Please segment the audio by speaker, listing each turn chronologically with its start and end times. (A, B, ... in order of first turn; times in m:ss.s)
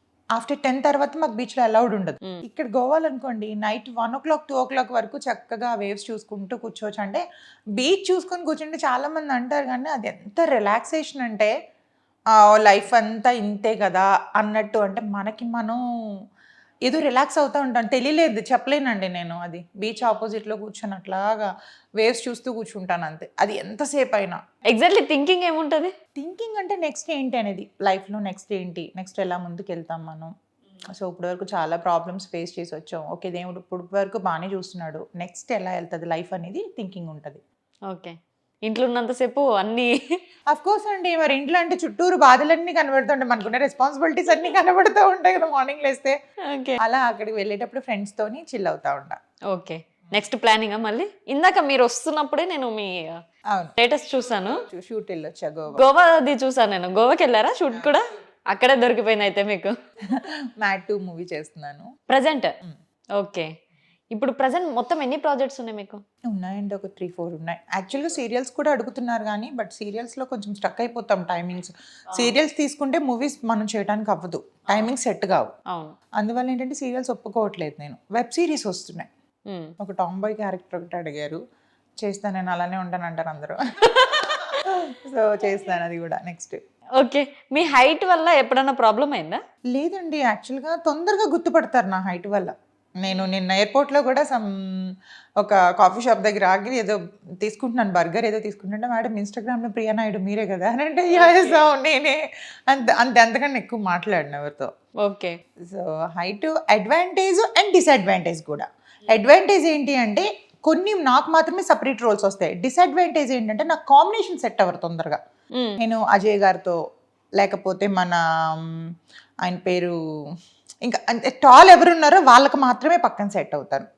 0:00.4-0:07.2 A
0:07.8-0:11.5 A
0:12.3-0:15.8 A
0:16.8-0:24.4 A
0:24.7-0:26.0 B
0:26.2-0:30.3 A
0:30.9-0:37.4 A
0:37.9-0:40.2 B
0:40.5-0:46.2 A
0:46.4-0:46.8 B
0:46.8-0:49.2 A
0:49.5-0:53.2 B
0:53.8-0:54.6 B
0:54.7-0:55.8 A
0:55.7-0:59.7 B
1:00.1-1:01.9 A
1:02.1-1:02.5 B
1:03.2-1:03.5 B
1:04.1-1:06.0 B
1:06.3-1:15.5 A
1:15.7-1:16.0 B
1:16.2-1:19.1 A
1:19.5-1:19.7 B
1:19.8-1:21.4 A
1:22.0-1:26.6 A
1:27.0-1:29.4 B
1:29.7-1:42.2 A
1:42.7-1:44.7 A
1:45.0-1:45.4 B
1:45.6-1:55.2 A
1:55.5-1:55.8 B
1:55.8-1:56.8 A
1:57.4-1:58.9 A
1:59.4-2:00.0 A
2:00.8-2:03.9 A